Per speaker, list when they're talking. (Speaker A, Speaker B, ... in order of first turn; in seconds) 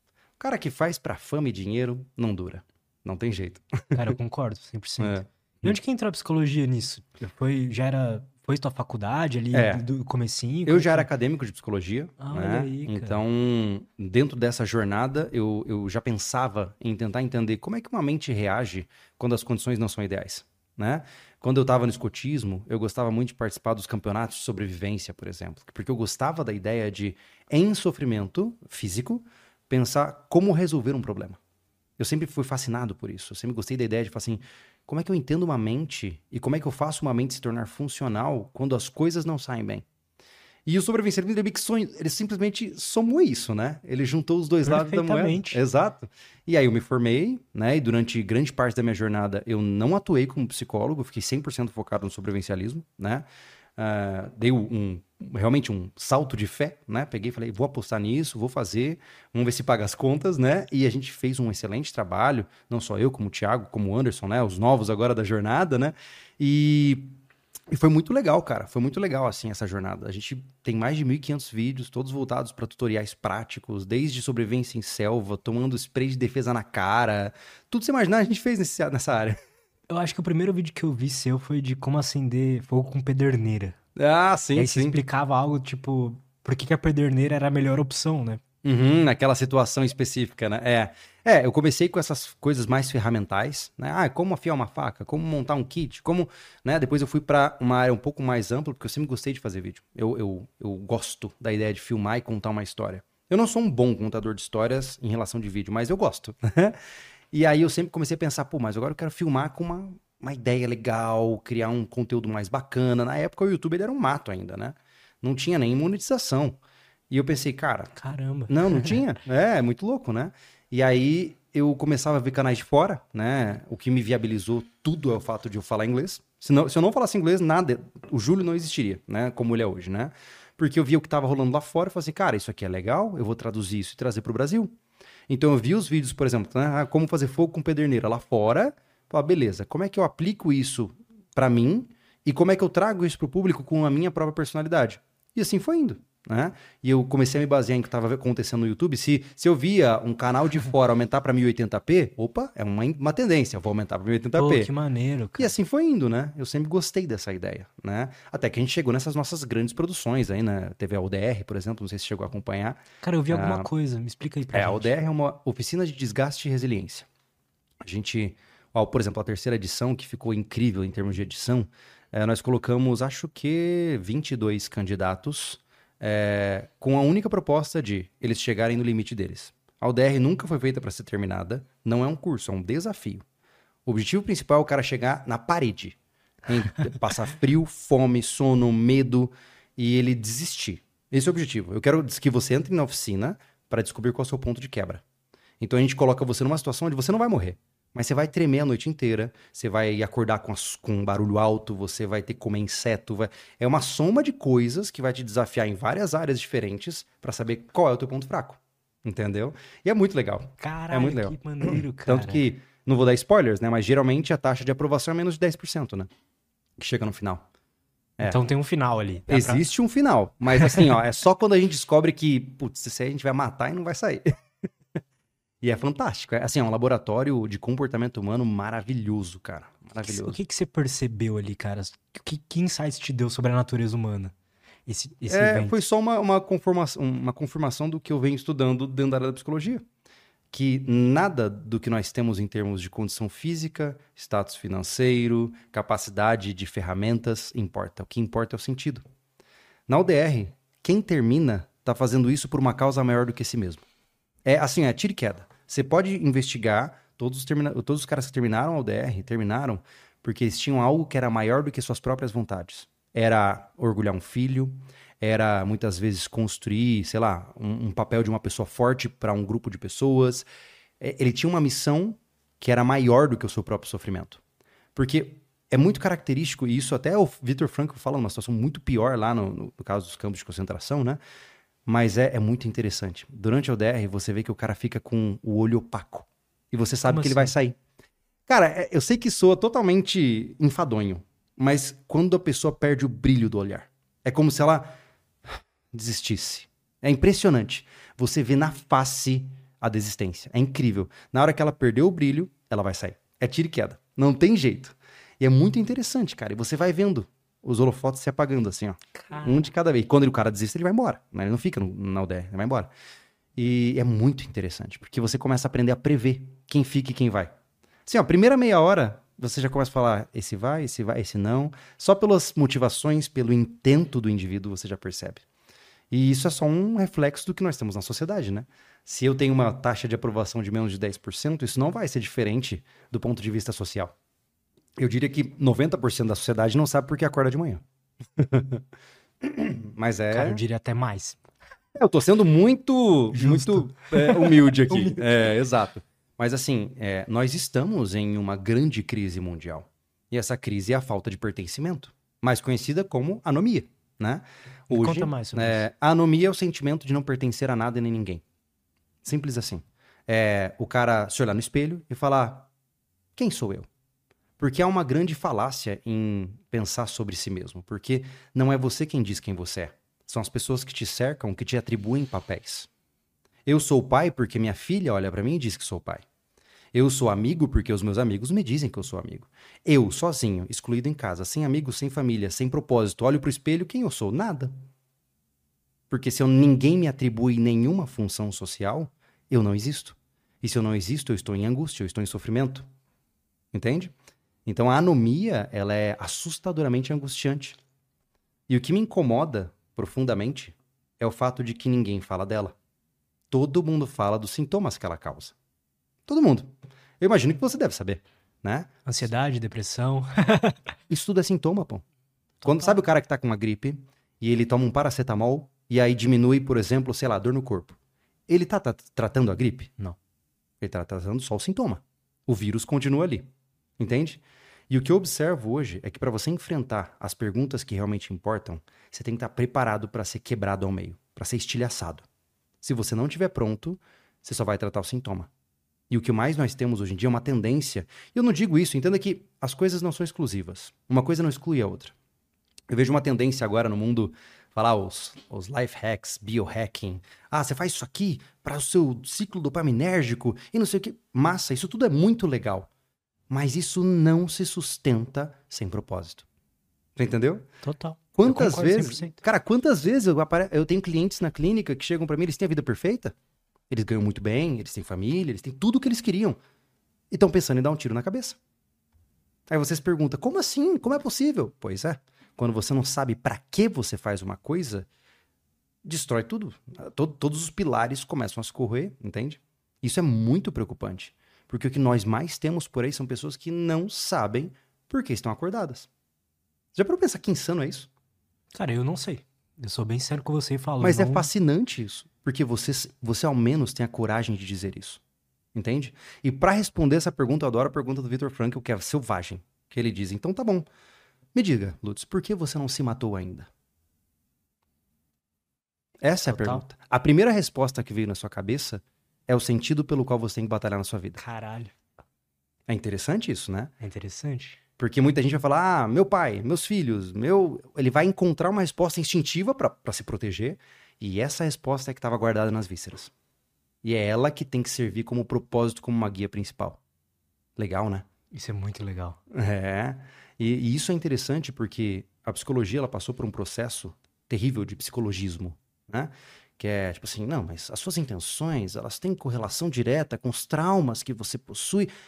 Speaker A: 0.4-4.1, 5.0-5.8, 9.5-9.8, 10.7-31.4, 32.0-39.8, 40.6-53.2, 53.8-67.1, 67.7-79.4, 84.0-85.0, 88.6-106.8, 107.3-116.6, 117.1-117.9, 118.5-134.7, 135.3-154.7, 155.4-163.7, 164.5-167.1, 167.8-183.2, 183.8-195.0, 195.6-216.1, 216.8-217.4, 219.3-224.3, 225.6-230.4, 235.3-239.8, 240.5-249.0, 249.9-253.8, 254.4-270.4, 271.0-274.4, 274.9-281.2, 281.9-287.8, 288.5-294.9, 295.5-312.9, 313.6-317.5, 318.1-325.4, 326.1-334.1, 335.0-337.8, 338.4-338.8, 339.4-340.6, 341.9-358.4, 359.2-362.7, 363.4-363.9, 364.6-372.9, 373.6-376.2, 376.9-384.7, 386.1-392.9, 393.7-394.1, 394.6-397.8, 398.7-402.7, 403.5-405.5, 406.3-408.9, 411.1-412.0, 412.6-418.0, 418.5-419.9, 420.8-423.5, 424.0-432.2, 432.8-435.5, 436.1-442.1, 442.9-452.9, 453.5-456.4, 457.1-457.7, 458.4-463.3, 463.9-466.6, 467.3-468.6, 469.7-475.1, 476.0-486.1, 486.9-488.1, 491.0-495.2, 495.7-500.9, 501.5-503.7, 506.2-511.4, 512.9-513.9, 515.0-523.3, 524.0-527.0, 527.8-528.3, 529.5-542.1
Speaker B: 3.9-11.1, 12.2-13.2, 44.6-45.6, 79.9-83.8, 84.5-88.4, 118.0-119.0, 154.4-155.5, 163.0-164.9, 210.6-212.5, 218.2-219.6, 230.0-234.3, 234.9-235.8, 287.1-287.5, 309.1-309.6, 340.3-341.4, 343.3-345.2, 354.9-355.8, 409.1-410.8, 412.6-413.0, 457.8-459.4, 488.7-491.5, 506.5-506.8, 511.4-511.9, 514.0-514.8, 528.5-529.4